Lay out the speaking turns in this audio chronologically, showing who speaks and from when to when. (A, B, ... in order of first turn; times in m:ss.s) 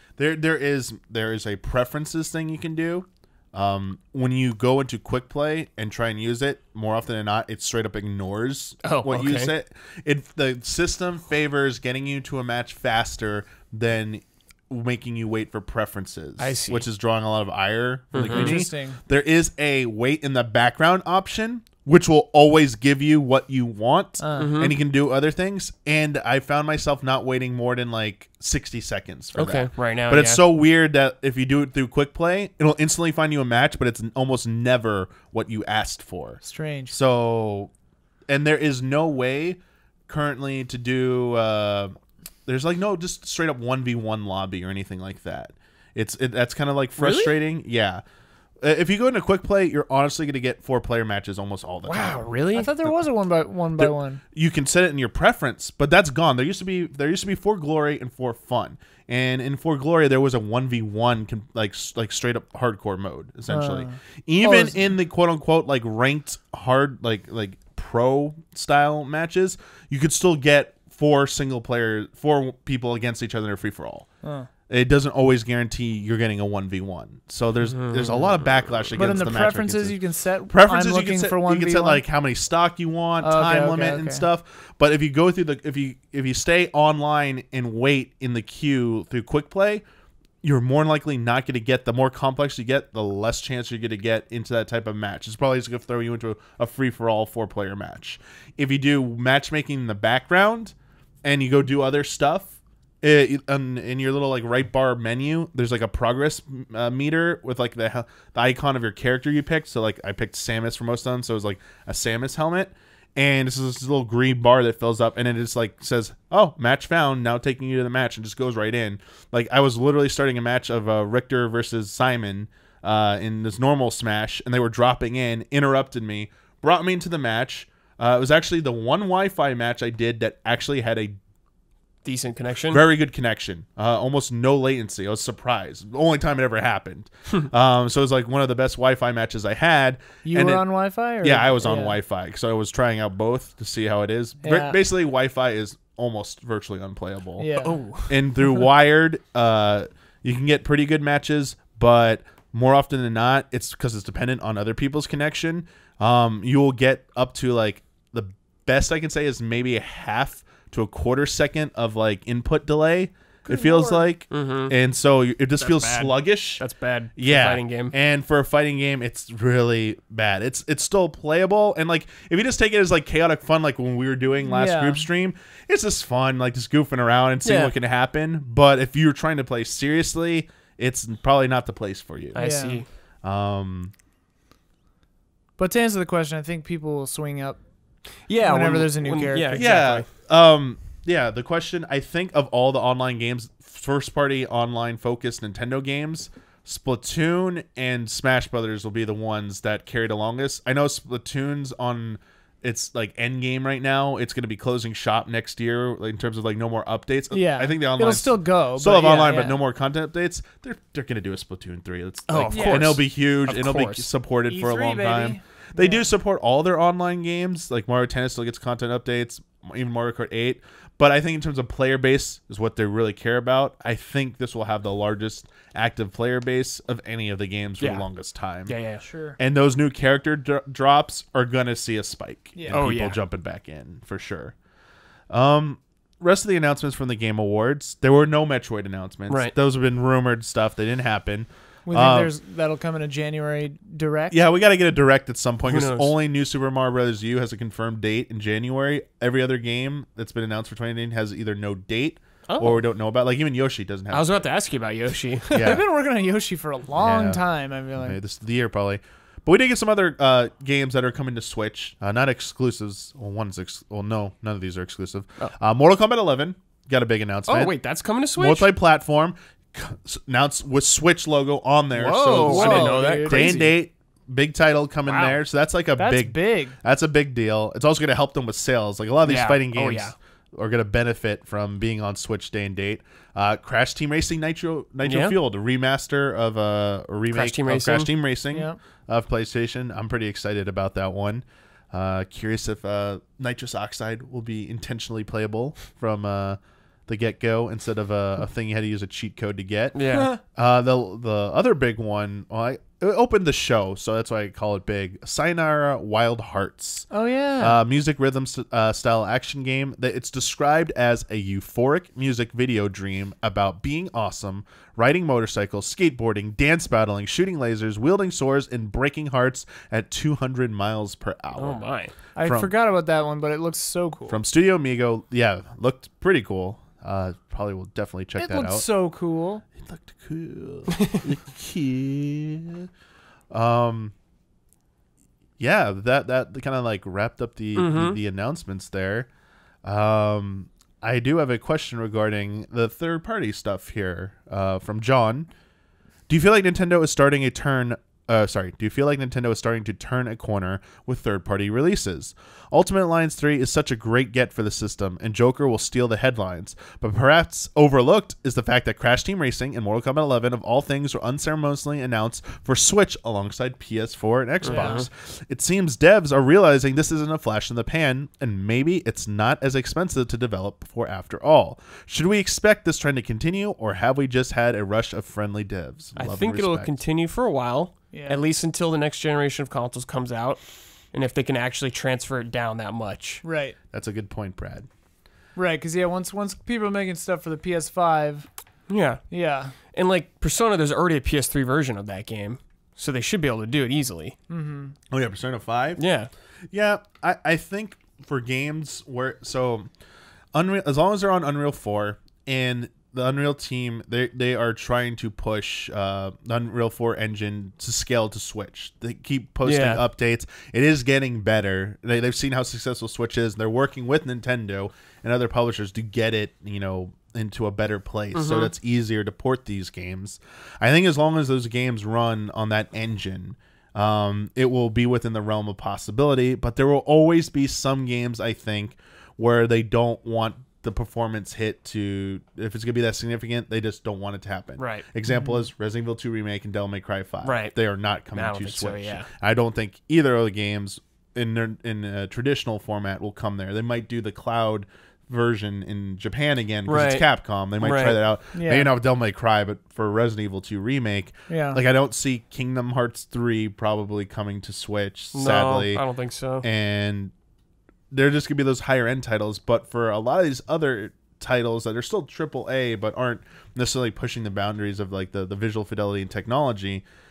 0:00.2-0:37.7 A
0:08.8-0:09.5 B
0:16.4-0:16.8 B
0:18.1-0:18.6 B
0:18.2-0:19.0 C
0:24.2-0:24.6 C
0:24.4-0:24.8 B
0:29.4-0:30.4 B
0:36.4-0:36.9 C
0:38.3-0:48.0 A
0:47.0-0:47.4 B
0:48.6-0:52.3 A
0:51.8-0:52.7 B
0:52.6-0:54.2 C
0:53.8-1:14.1 A
1:03.5-1:04.9 C
1:14.2-1:14.5 C
1:14.7-1:29.8 A
1:17.7-1:19.0 B
1:19.0-1:22.0 C
1:23.2-1:24.2 C
1:30.4-2:11.2 A
2:12.0-2:12.8 B
2:12.7-2:20.6 A
2:20.2-2:22.0 C
2:21.2-3:02.4 A
2:24.4-2:24.8 C
2:27.4-2:27.8 C
2:27.6-2:28.2 B
2:43.4-2:44.1 C
2:44.3-2:44.7 B
2:45.6-2:47.9 B
2:54.4-2:55.1 C
2:57.4-2:57.7 B
3:02.3-3:02.9 B
3:02.4-3:02.8 C
3:03.2-3:03.9 A
3:05.6-3:07.6 C
3:08.3-3:10.1 B
3:08.4-3:09.7 C
3:09.6-3:48.8 A
3:27.3-3:29.6 C
3:32.3-3:34.1 B
3:32.5-3:32.9 C
3:34.5-3:36.1 C
3:47.8-3:48.0 B
3:48.7-3:49.0 B
3:49.0-3:49.4 C
3:49.4-3:54.6 A
3:52.7-3:53.2 B
3:55.3-4:02.3 A
4:01.9-4:04.3 C
4:04.3-4:14.3 A
4:05.7-4:06.1 B
4:12.5-4:12.8 B
4:14.1-4:15.8 B
4:15.5-4:15.8 A
4:15.6-4:18.2 C
4:17.0-4:17.4 A
4:18.0-4:27.8 A
4:27.5-4:28.7 B
4:28.4-5:21.8 A
4:31.9-4:33.7 B
4:32.4-4:33.6 C
4:35.1-4:35.4 B
4:36.0-4:36.8 C
4:39.2-4:40.2 B
4:45.0-4:45.4 B
4:47.3-4:48.1 B
4:48.5-4:48.8 C
5:00.0-5:00.3 B
5:07.1-5:07.8 C
5:21.6-5:22.2 B
5:22.4-5:24.4 C
5:22.4-5:22.7 A
5:24.3-5:28.9 A
5:28.4-5:29.6 C
5:29.8-5:32.9 A
5:33.5-5:34.1 A
5:35.6-5:39.3 A
5:37.8-5:38.2 B
5:39.8-5:45.5 A
5:46.3-6:17.0 A
6:04.6-6:05.1 B
6:04.7-6:05.0 C
6:16.2-6:23.4 B
6:18.1-6:18.4 C
6:23.4-6:23.8 C
6:23.9-6:24.9 A
6:25.6-6:28.5 C
6:28.9-6:29.2 B
6:29.3-6:29.7 C
6:29.9-6:34.4 B
6:34.5-6:35.0 C
6:35.1-6:36.0 A
6:36.0-6:36.3 B
6:36.7-6:39.9 A
6:40.5-7:36.0 A
6:49.6-6:50.0 B
6:58.3-6:58.7 B
7:14.8-7:15.1 B
7:15.3-7:15.6 C
7:17.4-7:17.8 B
7:18.3-7:19.3 B
7:26.9-7:27.2 B
7:27.8-7:28.2 B
7:28.5-7:28.9 C
7:31.5-7:31.8 C
7:35.3-7:36.6 B
7:36.6-7:37.3 A
7:38.1-7:47.0 A